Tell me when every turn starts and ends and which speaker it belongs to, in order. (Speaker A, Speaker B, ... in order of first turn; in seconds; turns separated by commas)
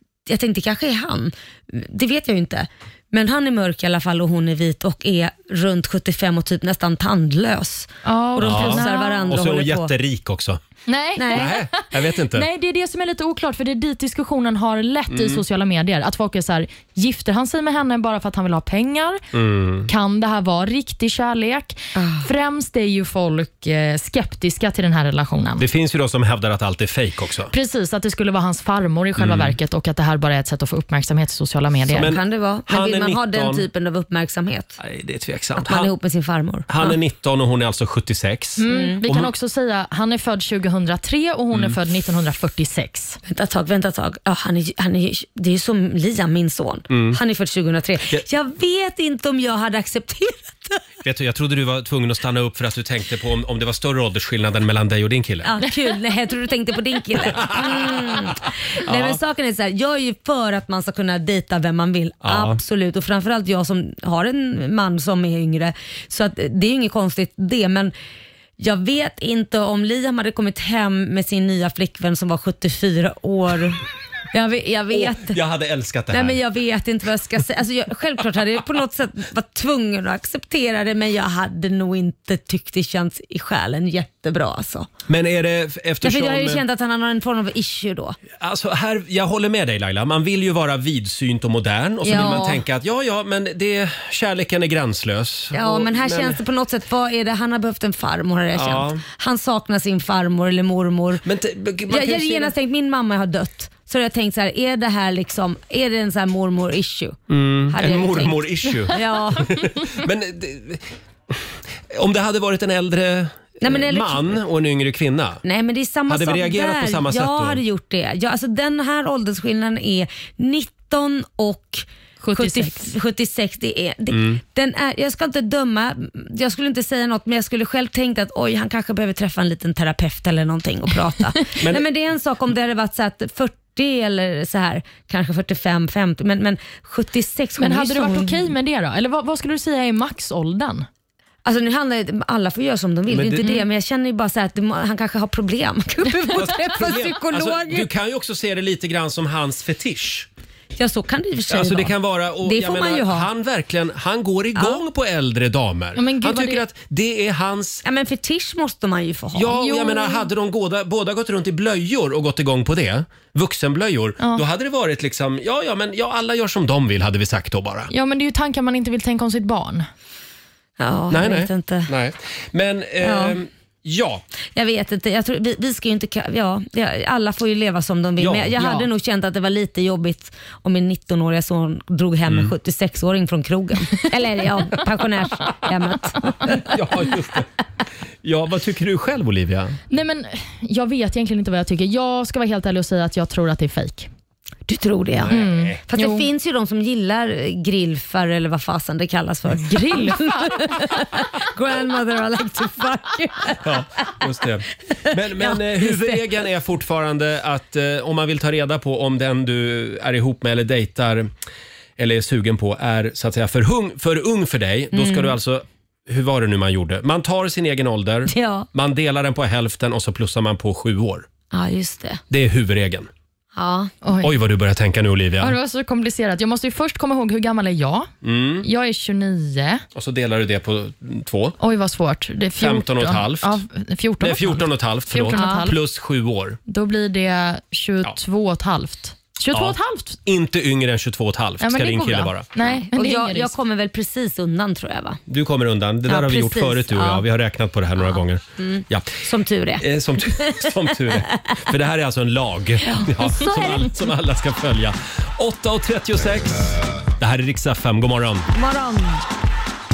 Speaker A: 0.3-9.9, Speaker B: 8.0-9.3, Speaker C: 8.4-10.6, Speaker B: 10.9-19.2, Speaker A: 11.2-11.5, Speaker C: 11.3-12.5, Speaker C: 15.1-15.4, Speaker C: 19.3-19.9, Speaker B: 19.9-25.6, Speaker A: 21.9-22.3, Speaker C: 25.6-27.5, Speaker B: 27.5-32.1, Speaker C: 29.2-29.5, Speaker C: 31.9-33.6, Speaker A: 31.9-34.8, Speaker C: 34.8-35.9, Speaker A: 35.5-36.9, Speaker C: 36.7-39.3, Speaker B: 38.6-43.2, Speaker A: 38.6-39.0, Speaker A: 43.2-50.8, Speaker C: 46.9-47.2, Speaker C: 51.0-55.5, Speaker A: 55.4-67.9, Speaker C: 57.3-58.3, Speaker C: 58.8-59.2, Speaker C: 62.2-62.6, Speaker A: 68.6-73.8, Speaker A: 74.3-75.4, Speaker C: 74.9-76.4, Speaker A: 76.1-84.9, Speaker C: 85.1-86.6, Speaker A: 86.0-88.2, Speaker C: 88.4-96.4, Speaker A: 92.0-92.6, Speaker A: 95.5-101.2, Speaker C: 98.5-99.0, Speaker C: 101.2-102.5, Speaker A: 101.9-107.2, Speaker C: 107.3-115.4, Speaker A: 107.7-109.7, Speaker A: 113.6-114.3, Speaker A: 115.4-138.5, Speaker C: 116.1-117.6, Speaker B: 122.2-122.9, Speaker C: 124.1-124.4, Speaker C: 131.6-131.8, Speaker B: 137.6-140.9, Speaker A: 141.4-147.9, Speaker C: 143.1-143.6, Speaker C: 146.3-150.3, Speaker A: 150.8-153.3, Speaker C: 151.5-157.8, Speaker B: 155.9-156.6, Speaker A: 157.8-159.8, Speaker C: 159.3-167.9, Speaker B: 159.6-160.2, Speaker B: 167.9-169.9, Speaker A: 170.8-171.9, Speaker C: 171.1-174.2, Speaker A: 173.0-173.4, Speaker A: 174.5-186.6, Speaker C: 178.2-178.8, Speaker C: 182.3-182.5, Speaker C: 186.5-187.5, Speaker C: 188.2-189.8, Speaker B: 189.9-194.1, Speaker A: 194.7-203.7, Speaker C: 195.2-195.8, Speaker B: 195.3-196.3, Speaker B: 199.6-200.4, Speaker C: 203.6-211.3, Speaker A: 205.3-206.2, Speaker C: 212.0-221.2, Speaker A: 214.9-215.3, Speaker A: 218.3-218.7, Speaker A: 221.5-222.2, Speaker C: 222.3-223.1, Speaker A: 223.5-223.9, Speaker B: 224.0-224.3, Speaker C: 224.2-225.6, Speaker B: 225.4-228.1, Speaker C: 228.2-228.7, Speaker B: 228.6-229.8, Speaker C: 229.9-231.6, Speaker B: 231.6-235.8, Speaker C: 232.6-233.6, Speaker C: 234.2-236.6, Speaker A: 235.3-235.6, Speaker B: 236.7-240.2, Speaker C: 239.5-242.5, Speaker B: 241.6-243.5, Speaker A: 242.6-245.2, Speaker C: 245.3-249.2, Speaker A: 246.1-247.2, Speaker A: 248.0-251.2, Speaker C: 249.8-258.5, Speaker A: 252.8-253.9, Speaker A: 258.5-259.2